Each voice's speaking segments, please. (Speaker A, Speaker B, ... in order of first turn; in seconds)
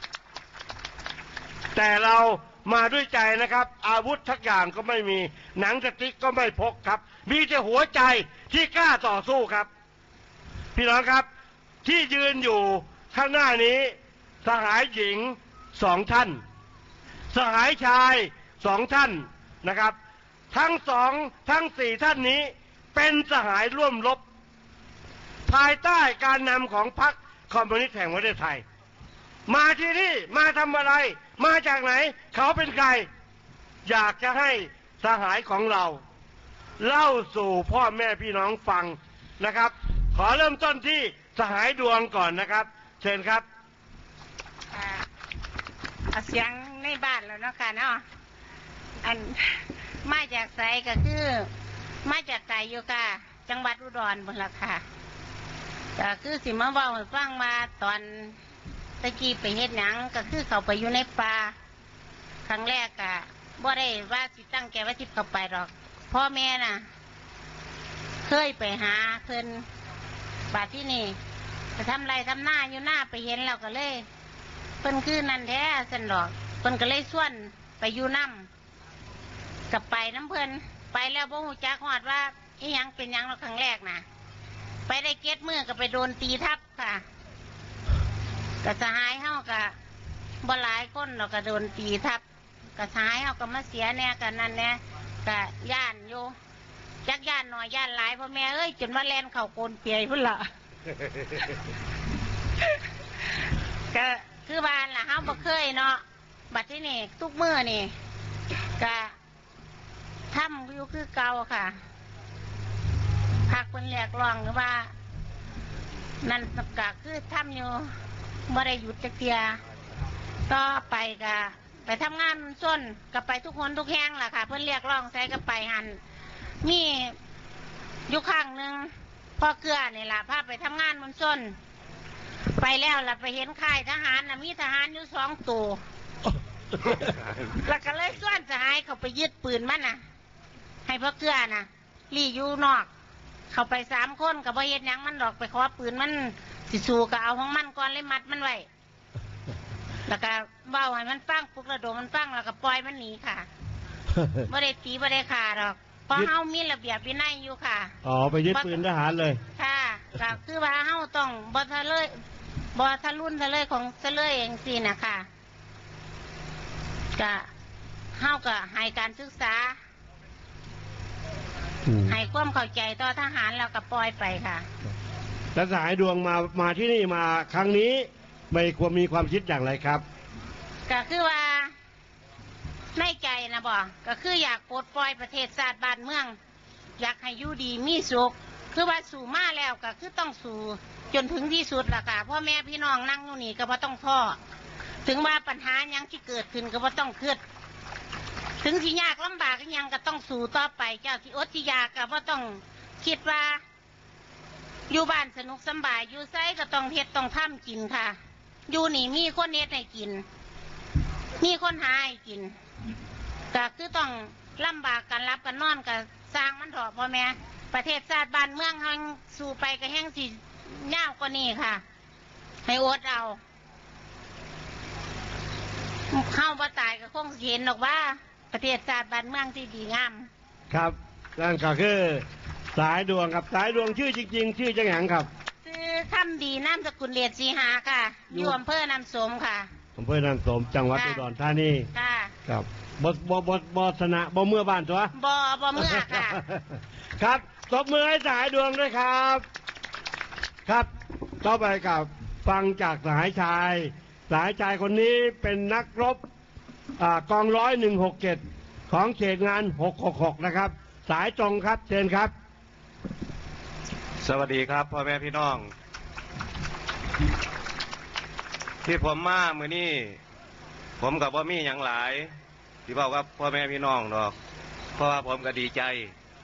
Speaker A: 1.8-9.7, 10.8-11.3, 11.8-16.4, 17.3-20.0, 20.5-24.2, 25.5-28.6, 29.5-33.1, 33.9-36.0, 36.8-43.5, 158.0-159.4, 175.6-180.0, 230.7-235.3, 240.0-241.9, 242.5-245.1, 246.2-246.7, 247.2-249.4, 251.4-256.2, 257.0-262.3
Speaker B: 44.7-45.1, 46.1-48.0, 49.0-51.5, 52.0-54.8, 56.0-58.4, 59.0-61.5, 62.5-66.8, 68.2-69.7, 70.5-71.2, 71.8-74.1, 74.8-78.5, 79.7-84.0, 84.9-87.0, 88.6-89.8, 90.4-92.2, 92.8-96.3, 97.0-100.5, 103.9-107.9, 108.8-109.1, 110.3-111.8, 113.5-114.9, 116.2-117.9, 118.5-119.6, 120.5-126.0, 126.6-127.2, 128.1-131.6, 132.6-135.8, 136.9-140.0, 140.9-142.9, 143.5-148.7, 150.1-153.5, 154.5-158.0, 158.5-158.8, 159.6-162.1, 162.7-165.3, 167.2-167.5, 168.2-169.8, 172.1-174.7, 180.9-181.7, 182.9-186.4, 187.0-194.4, 195.1-197.4, 198.6-203.6, 204.9-208.2, 208.7-210.2, 211.4-212.5, 213.5-221.8, 222.7-223.4, 226.1-230.3, 235.7-239.7, 240.9-241.2, 241.9-242.3, 245.2-246.4
Speaker C: 264.2-265.7, 268.9-270.2, 271.0-272.3, 272.9-274.4, 275.0-276.1